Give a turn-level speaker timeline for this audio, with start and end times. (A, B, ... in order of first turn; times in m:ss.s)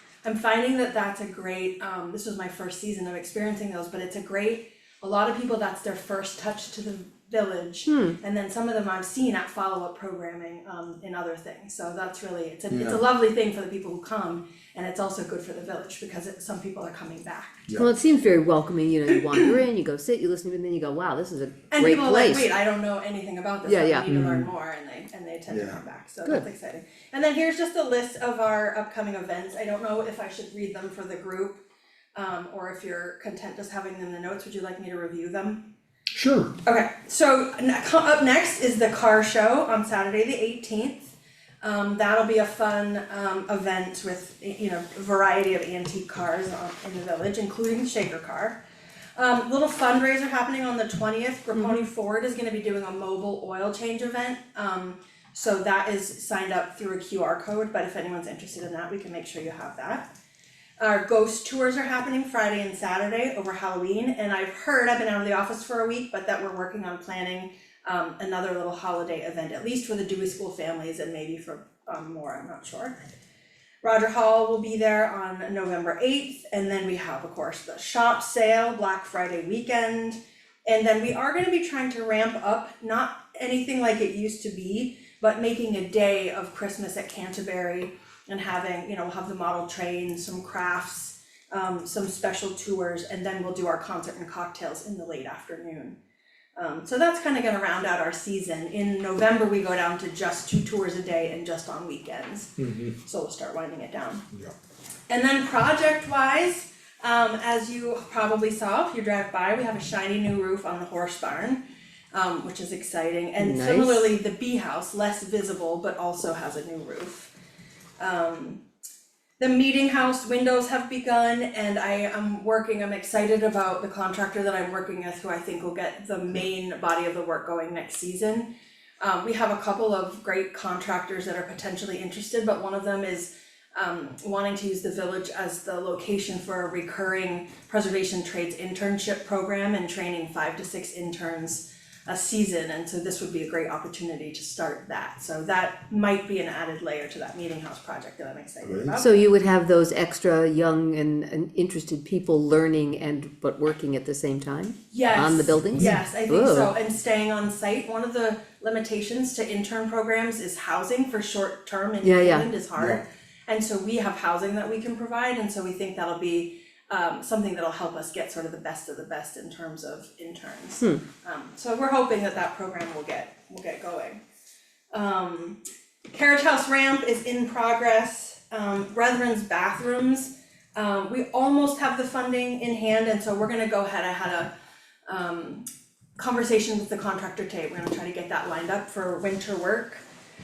0:00.2-0:17.8 A
0:07.9-0:08.2 B
0:12.7-0:13.0 C
0:17.7-0:17.9 C
0:17.8-0:22.5 B
0:21.7-0:31.6 A
0:23.6-0:24.2 B
0:24.1-0:24.5 C
0:25.5-0:25.8 C
0:32.2-0:35.7 A
0:36.1-0:36.6 C
0:36.6-0:48.6 A
0:49.2-1:00.1 A
0:51.6-0:51.8 B
1:00.8-1:13.0 A
1:13.8-1:36.0 A
1:36.6-1:44.3 A
1:42.6-1:42.9 C
1:45.1-1:51.6 A
1:52.1-1:57.3 A
1:53.4-1:54.1 B
1:58.0-1:58.6 A
1:59.4-2:08.5 A
2:09.0-2:29.2 A
2:28.6-2:29.0 C
2:29.0-2:36.7 B
2:34.9-2:54.2 A
2:42.0-2:42.5 B
2:54.9-3:04.5 A
3:05.1-3:05.6 A
3:06.2-3:10.0 A